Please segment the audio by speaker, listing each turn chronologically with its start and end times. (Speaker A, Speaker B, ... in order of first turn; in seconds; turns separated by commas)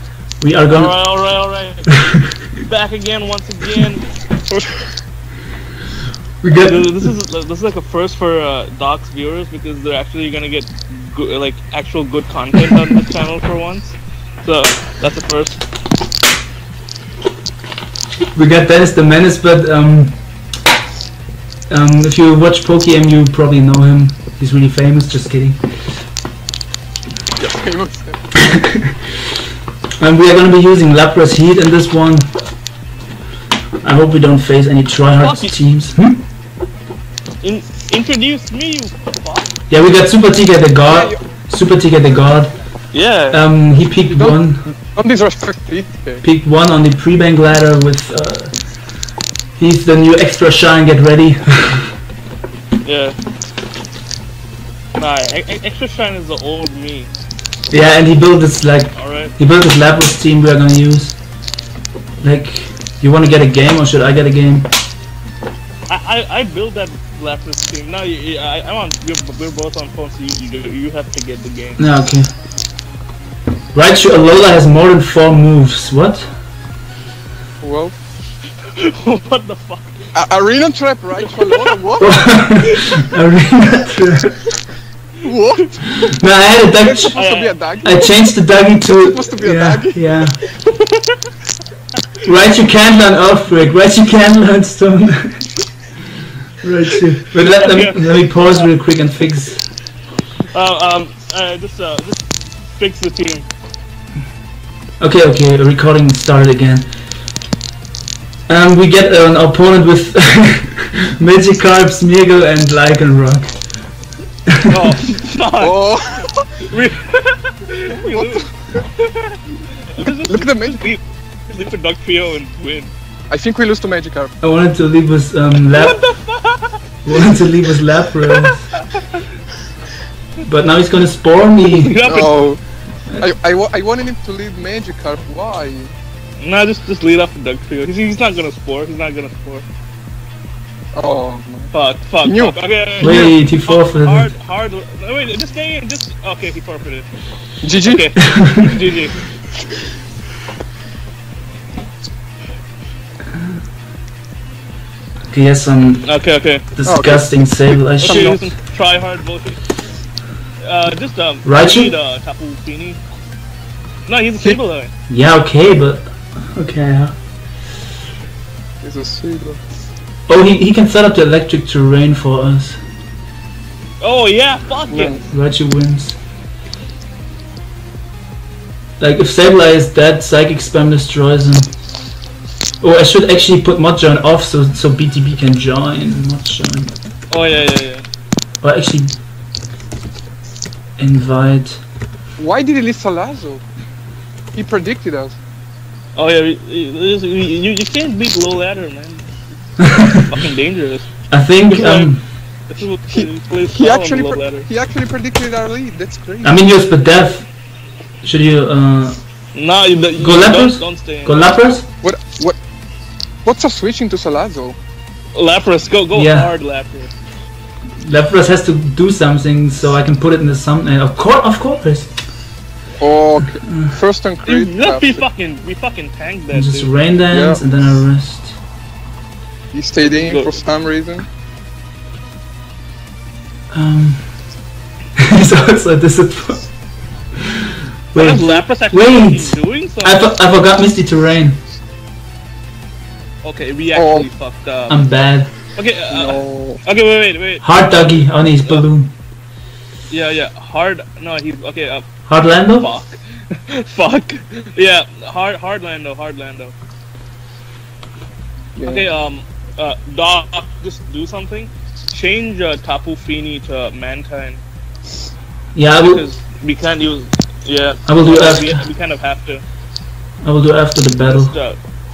Speaker A: 0.4-1.0, Speaker B: 0.7-2.0, Speaker A: 2.1-2.3, Speaker B: 2.6-4.9, Speaker A: 6.4-7.1, Speaker B: 6.5-15.6, Speaker A: 18.3-20.2, Speaker A: 21.7-25.7, Speaker C: 27.4-28.6, Speaker A: 28.4-29.4, Speaker A: 30.0-32.3, Speaker A: 33.8-36.2, Speaker B: 35.2-35.6, Speaker B: 37.4-39.5, Speaker A: 39.7-42.5, Speaker C: 40.9-41.2, Speaker B: 42.9-43.4, Speaker A: 43.3-44.6, Speaker C: 44.1-46.2, Speaker A: 46.2-48.6, Speaker A: 49.6-52.0, Speaker B: 52.8-53.2, Speaker B: 55.0-57.1, Speaker A: 57.7-61.2, Speaker B: 59.0-59.4, Speaker A: 62.2-64.7, Speaker B: 65.9-71.9, Speaker A: 71.8-72.3, Speaker A: 73.7-76.3, Speaker C: 77.6-78.0, Speaker B: 78.8-80.0, Speaker C: 80.2-82.3, Speaker B: 81.4-81.8, Speaker A: 82.0-84.5, Speaker B: 82.7-83.0, Speaker C: 85.2-86.2, Speaker A: 86.2-87.2, Speaker C: 86.8-88.3, Speaker B: 87.1-87.5, Speaker A: 87.8-90.4, Speaker C: 89.0-90.3, Speaker B: 90.8-91.2, Speaker A: 92.2-95.5, Speaker A: 96.6-99.7, Speaker B: 97.4-98.7, Speaker B: 100.5-103.5, Speaker A: 105.0-106.9, Speaker A: 108.5-113.6, Speaker A: 114.5-114.8, Speaker B: 114.7-122.9, Speaker C: 115.6-116.4, Speaker C: 117.9-118.5, Speaker C: 120.3-120.8, Speaker C: 123.3-124.4, Speaker A: 124.4-126.0, Speaker B: 125.7-126.8, Speaker A: 127.0-128.7, Speaker B: 128.2-129.2, Speaker A: 130.4-132.0, Speaker B: 131.7-132.4, Speaker C: 132.1-132.6, Speaker C: 133.2-135.9, Speaker B: 136.4-139.7, Speaker C: 140.9-141.7, Speaker B: 141.7-147.1, Speaker C: 142.2-143.1, Speaker A: 143.0-144.3, Speaker C: 147.6-148.1, Speaker B: 147.7-149.2, Speaker A: 148.2-148.7, Speaker A: 155.3-156.1, Speaker B: 156.0-156.7, Speaker A: 156.7-158.4, Speaker C: 156.8-158.4, Speaker B: 158.0-159.6, Speaker B: 160.6-163.0, Speaker A: 161.4-161.9, Speaker B: 164.1-164.9, Speaker A: 165.1-167.2, Speaker C: 168.8-169.6, Speaker A: 170.3-172.8, Speaker B: 174.0-175.2, Speaker C: 174.9-175.2, Speaker A: 175.3-176.2, Speaker A: 179.0-181.7, Speaker A: 182.8-186.9, Speaker B: 187.3-188.0, Speaker A: 188.6-189.2, Speaker A: 191.0-191.8, Speaker C: 192.4-193.6, Speaker C: 194.5-195.4, Speaker B: 196.2-199.3, Speaker A: 199.8-200.4, Speaker B: 199.9-201.1, Speaker A: 201.3-202.2, Speaker B: 201.7-202.1, Speaker B: 202.7-204.7, Speaker C: 203.1-206.6, Speaker A: 206.4-207.5, Speaker A: 208.2-209.2, Speaker B: 209.5-211.4, Speaker A: 210.2-211.9, Speaker C: 212.0-212.6, Speaker C: 213.4-214.8, Speaker B: 215.3-217.1, Speaker A: 216.1-216.5, Speaker A: 218.0-222.1, Speaker C: 223.0-225.2, Speaker A: 223.6-223.9, Speaker B: 224.4-226.9, Speaker A: 226.5-228.6, Speaker C: 227.3-227.6, Speaker C: 229.7-231.3, Speaker B: 230.1-230.6, Speaker A: 233.7-234.3, Speaker A: 235.2-236.7, Speaker A: 237.4-241.6, Speaker B: 238.1-240.3, Speaker B: 243.4-245.0, Speaker C: 243.9-244.3, Speaker A: 244.9-245.5, Speaker B: 245.8-248.8, Speaker C: 246.1-246.8, Speaker A: 247.6-249.1, Speaker B: 250.1-252.1, Speaker A: 252.3-252.9, Speaker B: 252.8-256.7, Speaker C: 258.8-259.1, Speaker B: 258.9-264.6, Speaker A: 265.8-266.2, Speaker B: 266.0-269.6, Speaker A: 268.1-268.8, Speaker A: 270.4-271.5, Speaker B: 271.3-271.8